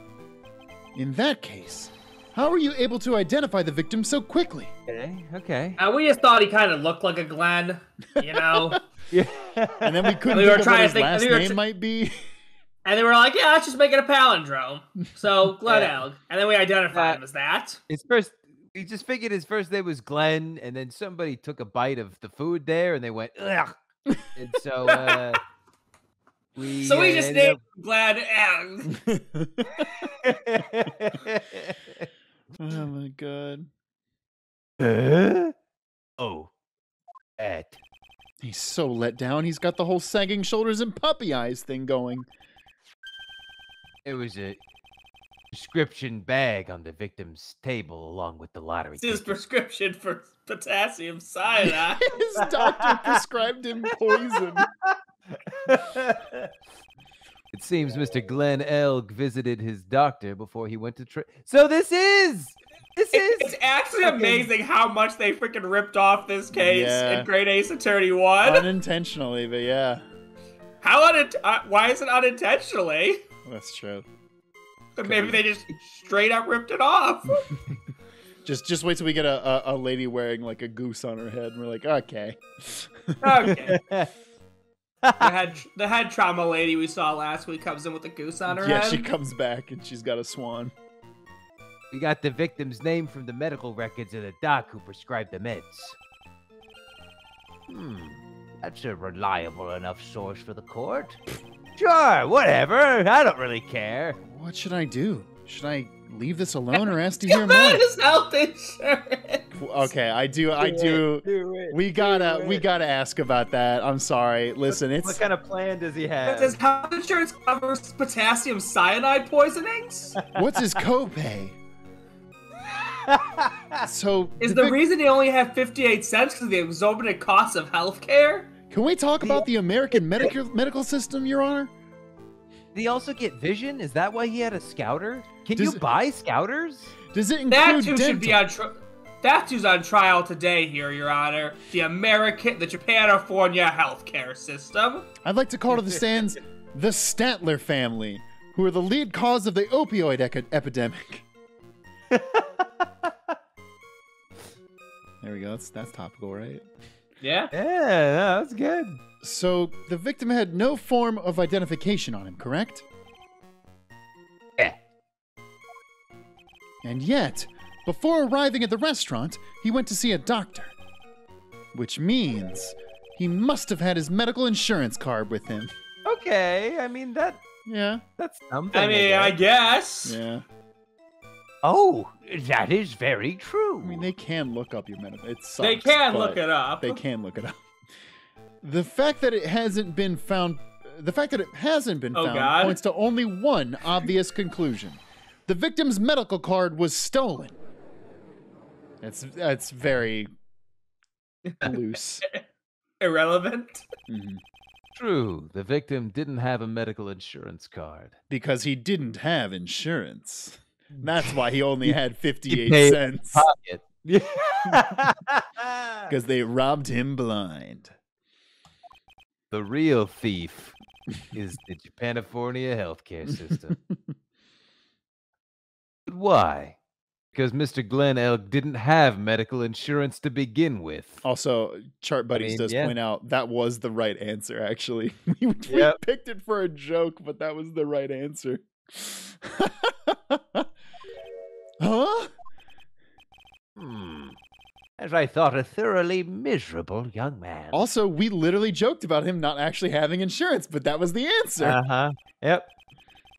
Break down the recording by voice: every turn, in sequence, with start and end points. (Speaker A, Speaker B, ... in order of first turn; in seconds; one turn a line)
Speaker A: 0.9-4.7
Speaker B: 4.9-5.8
Speaker C: 5.8-8.8
Speaker A: 8.4-8.8
Speaker B: 9.1-10.1
Speaker A: 9.8-12.1
Speaker C: 10.3-11.6
Speaker C: 12.8-17.8
Speaker B: 15.7-16.0
Speaker B: 16.9-17.2
Speaker B: 17.9-23.7
Speaker B: 24.4-25.4
Speaker C: 24.9-25.2
Speaker B: 26.6-27.6
Speaker C: 26.8-28.9
Speaker A: 28.9-29.9
Speaker B: 30.2-32.1
Speaker A: 32.6-33.7
Speaker B: 34.8-35.5
Speaker B: 36.2-36.5
Speaker B: 37.4-37.8
Speaker A: 38.4-42.3
Speaker B: 44.0-44.6
Speaker B: 45.5-49.3
Speaker C: 49.0-52.2
Speaker A: 51.7-54.7
Speaker B: 52.4-53.2
Speaker B: 54.6-54.9
Speaker B: 55.5-56.5
Speaker B: 57.5-64.5
Speaker C: 63.1-68.7
Speaker A: 66.5-67.3
Speaker A: 68.4-70.0
Speaker C: 70.8-73.2
Speaker A: 73.5-74.1
Speaker C: 75.0-77.5
Speaker A: 75.0-75.4
Speaker A: 78.4-83.5
Speaker C: 83.2-83.8
Speaker B: 83.5-84.1
Speaker C: 85.2-89.0
Speaker A: 88.5-90.7
Speaker B: 91.9-96.0
Speaker B: 97.7-101.2
Speaker B: 101.8-104.2
Speaker A: 104.2-107.8
Speaker C: 107.3-109.5
Speaker A: 109.5-115.2
Speaker B: 110.6-112.6
Speaker B: 115.0-116.6
Speaker C: 116.3-120.2
Speaker B: 120.2-120.4
Speaker A: 120.3-121.6
Speaker B: 123.0-123.9
Speaker A: 123.8-124.8
Speaker C: 124.4-128.5
Speaker A: 128.7-131.7
Speaker B: 132.8-137.0
Speaker A: 135.6-135.8
Speaker A: 137.1-138.4
Speaker C: 137.5-145.1
Speaker A: 145.2-151.3
Speaker B: 152.1-153.1
Speaker A: 155.2-156.7
Speaker C: 157.2-157.5
Speaker B: 157.5-159.0
Speaker A: 159.2-162.8
Speaker A: 166.8-170.8
Speaker A: 171.7-175.7
Speaker B: 176.1-177.4
Speaker A: 177.7-178.0
Speaker B: 178.2-179.4
Speaker C: 178.7-180.2
Speaker A: 180.1-180.4
Speaker B: 181.6-184.1
Speaker A: 183.8-187.6
Speaker C: 185.6-187.0
Speaker A: 188.6-197.6
Speaker C: 192.1-192.8
Speaker A: 199.0-200.3
Speaker C: 201.5-202.4
Speaker A: 201.6-202.2
Speaker C: 203.0-203.9
Speaker A: 204.1-204.4
Speaker B: 205.0-208.2
Speaker A: 208.3-213.5
Speaker B: 210.9-212.0
Speaker B: 212.5-216.1
Speaker A: 214.7-215.0
Speaker A: 216.1-217.9
Speaker B: 219.5-220.8
Speaker B: 221.3-223.8
Speaker A: 223.5-224.0
Speaker B: 226.1-226.8
Speaker B: 227.3-231.2
Speaker A: 231.2-240.7
Speaker B: 232.3-233.0
Speaker B: 235.7-236.0
Speaker A: 241.8-242.3
Speaker B: 243.8-244.4
Speaker B: 245.0-247.8
Speaker A: 247.7-251.8
Speaker B: 251.6-252.7